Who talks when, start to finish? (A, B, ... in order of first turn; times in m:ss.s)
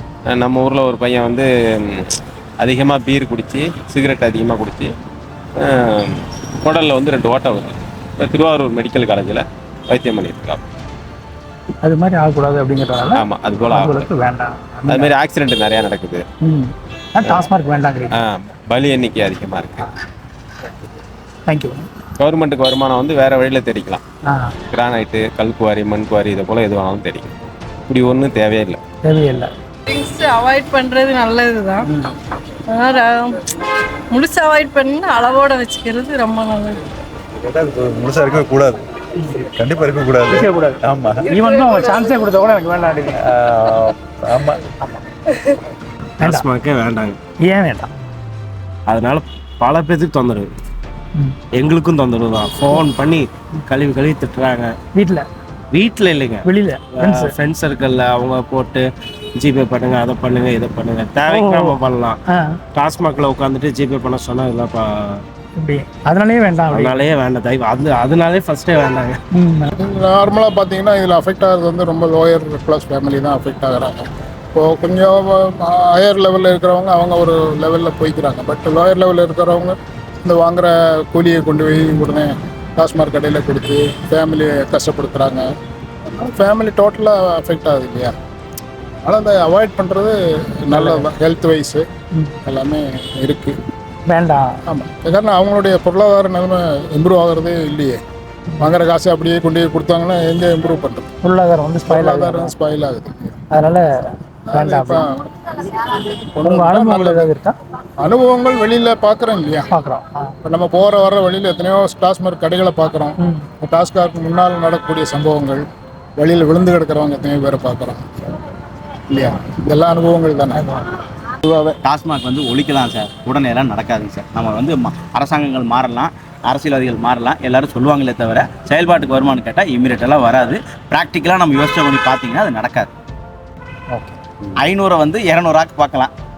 0:00.3-0:04.9 A
0:05.6-0:10.6 A
0:11.8-0:15.1 B
0:13.1-0:14.1 A
0:14.9-0:16.2 A
0:16.4-0:18.1 B
0:17.2-0:17.5 A
0:18.1-0:19.9 A
0:21.5-0:21.9 B
0:22.2-0:24.0 A
0:24.3-0:24.5 B
0:24.7-0:27.3 A
0:27.9-0:28.8 A
0:29.0-0:29.5 B
0:29.9-0:31.9 C
0:31.8-0:32.1 B
0:32.7-0:33.3 C
0:34.1-0:36.8 C
0:37.6-0:38.7 D
0:39.2-0:39.5 B
0:39.6-0:39.9 D
0:40.1-0:43.3 B
0:46.2-0:46.5 B
0:46.2-0:47.2 D
0:47.4-0:47.9 B
0:48.9-0:50.5 D
0:51.5-0:54.7 D
0:54.9-0:55.2 B
0:55.7-1:02.2 D
0:56.4-0:57.3 B
1:01.3-1:02.6 B
1:02.7-1:05.2 D
1:05.6-1:07.0 B
1:06.7-1:09.2 D
1:09.3-1:09.7 B
1:09.7-1:25.4 E
1:26.1-1:28.1 E
1:29.0-1:30.1 E
1:30.7-1:31.8 E
1:30.7-1:31.1 B
1:32.4-1:33.5 E
1:34.1-1:34.5 B
1:34.7-1:38.0 E
1:38.6-1:41.1 E
1:41.2-1:42.5 B
1:41.9-1:43.3 E
1:43.5-1:43.9 B
1:44.5-1:45.0 E
1:44.5-1:45.0 B
1:45.7-1:47.5 B
1:46.4-1:47.3 E
1:48.0-1:49.7 E
1:49.7-1:50.3 B
1:50.4-1:55.6 E
1:53.2-1:53.4 B
1:56.2-1:58.0 E
1:59.1-2:00.7 E
2:00.5-2:00.8 B
2:01.4-2:01.8 E
2:01.8-2:12.9 F
2:14.6-2:16.1 F